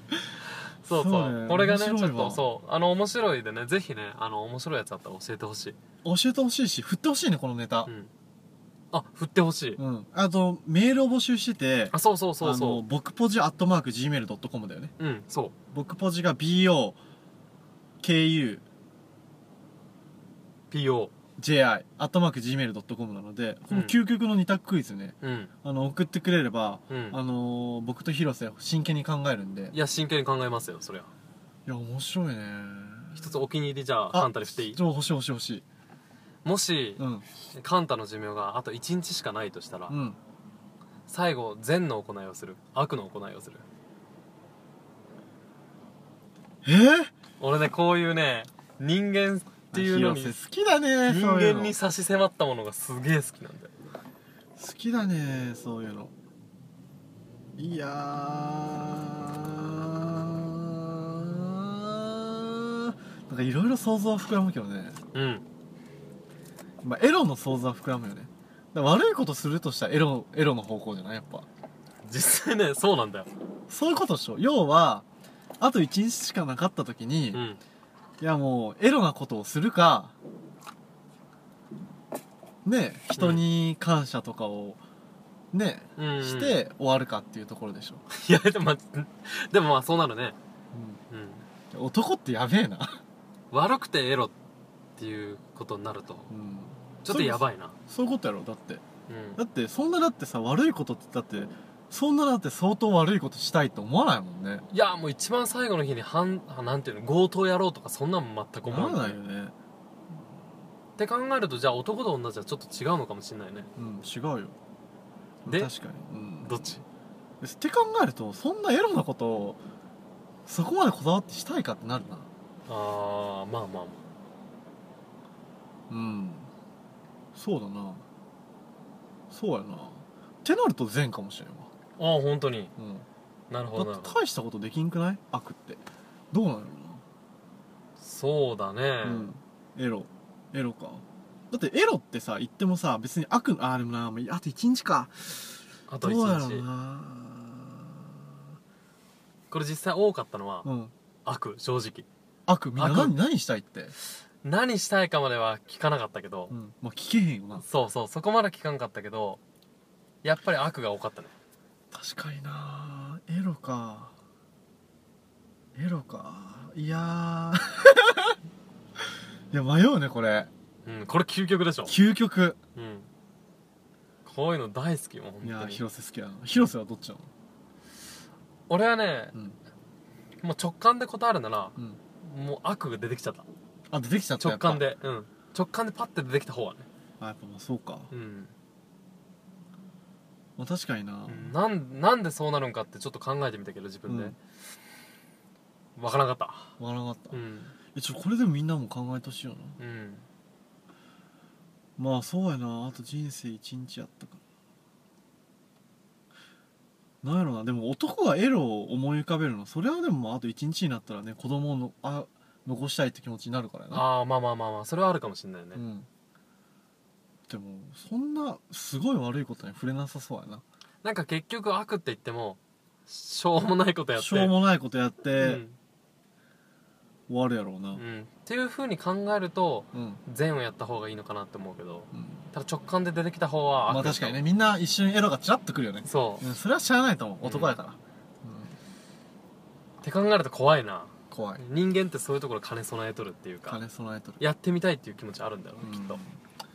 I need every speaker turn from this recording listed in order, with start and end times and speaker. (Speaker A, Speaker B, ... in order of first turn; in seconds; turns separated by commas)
Speaker A: 0.8-5.8, Speaker B: 0.9-2.5, Speaker B: 6.0-7.9, Speaker A: 7.9-8.1, Speaker A: 8.9-9.8, Speaker B: 9.8-14.9, Speaker A: 11.9-12.8, Speaker A: 15.0-15.5, Speaker B: 15.7-17.0, Speaker B: 18.0-18.6, Speaker A: 20.7-21.1, Speaker B: 21.4-29.8, Speaker A: 25.2-25.5, Speaker A: 26.9-27.2, Speaker A: 29.7-31.1, Speaker B: 31.7-33.4, Speaker A: 33.2-34.8, Speaker B: 34.1-35.6, Speaker A: 36.4-39.9, Speaker B: 37.0-37.2, Speaker B: 39.9-40.2, Speaker A: 41.1-43.6, Speaker B: 46.6-47.1, Speaker A: 47.4-50.4, Speaker B: 49.7-51.8, Speaker A: 51.1-53.7, Speaker B: 54.6-56.1, Speaker B: 57.6-65.0, Speaker A: 65.1-65.4, Speaker B: 66.8-71.5, Speaker A: 72.0-73.3, Speaker B: 73.7-75.0, Speaker B: 75.6-77.4, Speaker A: 77.3-77.6, Speaker B: 78.2-80.2, Speaker B: 82.7-84.8, Speaker A: 83.2-83.4, Speaker B: 85.5-88.0, Speaker A: 86.0-86.6, Speaker A: 88.1-90.4, Speaker B: 90.7-91.0, Speaker A: 91.1-91.4, Speaker B: 91.7-93.0, Speaker A: 93.5-94.3, Speaker A: 95.0-96.3, Speaker B: 96.3-98.8, Speaker A: 97.0-97.8, Speaker A: 99.1-99.4, Speaker B: 99.4-104.7, Speaker A: 104.7-109.2, Speaker B: 108.7-109.5, Speaker A: 111.0-113.7, Speaker B: 113.8-114.5, Speaker B: 115.5-116.8, Speaker A: 115.5-115.7, Speaker A: 116.4-116.8, Speaker B: 117.4-119.6, Speaker B: 120.5-122.3, Speaker A: 122.7-124.0, Speaker B: 125.9-126.5, Speaker B: 127.3-128.0, Speaker B: 129.3-131.7, Speaker A: 132.0-132.7, Speaker B: 132.8-133.1, Speaker A: 133.5-134.2, Speaker B: 133.8-137.0, Speaker A: 138.0-139.3, Speaker B: 139.0-145.4, Speaker A: 145.9-146.7, Speaker B: 146.0-148.2, Speaker A: 149.5-150.7, Speaker B: 150.6-150.9, Speaker A: 151.2-152.1, Speaker B: 152.5-153.9, Speaker A: 152.8-153.1, Speaker A: 154.4-156.5, Speaker B: 156.5-157.7, Speaker A: 157.6-159.4, Speaker A: 160.2-161.3, Speaker B: 161.9-164.1, Speaker B: 165.8-168.4, Speaker B: 169.5-170.5, Speaker A: 170.8-171.9, Speaker B: 171.9-172.6, Speaker A: 172.8-173.1, Speaker A: 174.2-175.8, Speaker B: 175.4-177.3, Speaker A: 178.7-179.3, Speaker A: 180.4-183.5, Speaker B: 183.9-184.9, Speaker A: 184.4-186.9, Speaker B: 187.2-188.1, Speaker A: 188.1-188.5, Speaker B: 190.6-191.5, Speaker A: 191.3-194.4, Speaker B: 194.1-194.4, Speaker A: 196.0-196.7, Speaker B: 196.8-197.4, Speaker A: 197.3-197.7, Speaker B: 197.9-199.8, Speaker A: 199.8-200.2, Speaker B: 202.0-204.4, Speaker B: 207.2-214.1, Speaker A: 213.9-215.8, Speaker B: 215.8-216.1, Speaker B: 217.5-220.6, Speaker A: 221.0-224.6, Speaker B: 224.2-225.6, Speaker A: 225.3-225.8, Speaker B: 227.3-228.0, Speaker A: 227.9-234.4, Speaker B: 229.9-230.2, Speaker B: 232.1-232.5, Speaker B: 233.9-238.8, Speaker A: 236.1-236.5, Speaker A: 237.4-237.8, Speaker A: 240.0-243.8, Speaker B: 241.3-241.6, Speaker B: 243.7-244.4, Speaker A: 244.4-246.2, Speaker B: 245.8-246.3